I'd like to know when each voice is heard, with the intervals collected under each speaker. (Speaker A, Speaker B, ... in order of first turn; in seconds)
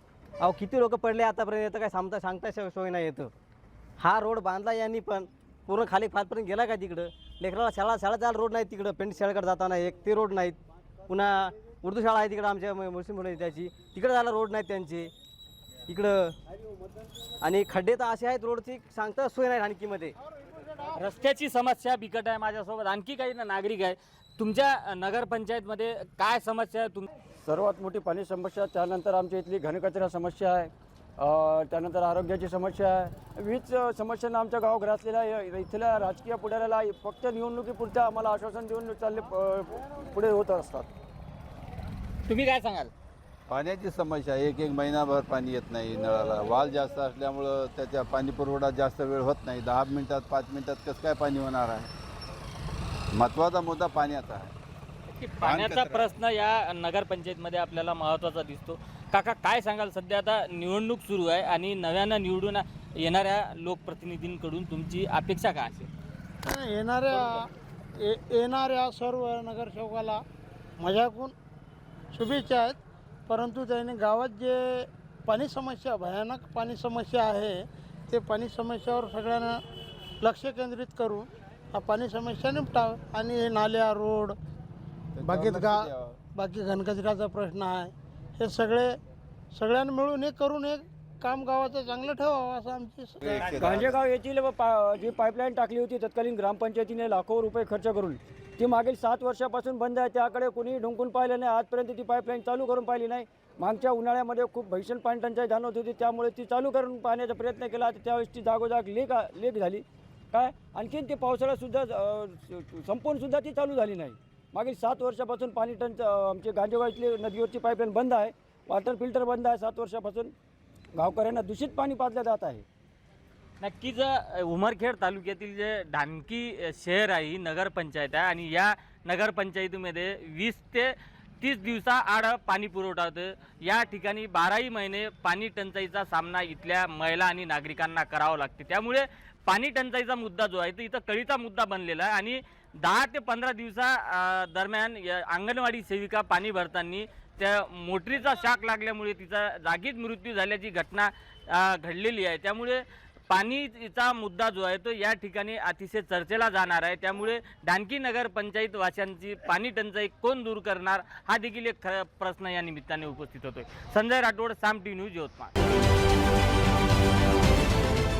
Speaker A: 0.4-3.3, 4.0-10.6, 11.1-15.1, 15.9-16.4, 17.4-20.1
Speaker B: 20.9-27.1, 42.3-42.9, 55.1-65.9, 123.6-165.5
Speaker C: 27.4-40.9, 93.6-120.3, 121.0-122.7
Speaker D: 43.5-51.9, 53.1-54.5, 55.4-56.1, 85.2-86.2, 93.2-94.0
Speaker E: 66.5-67.5, 68.0-70.2, 70.8-71.3, 72.1-77.6, 78.1-79.6, 80.2-84.4, 85.2-89.0, 89.5-93.5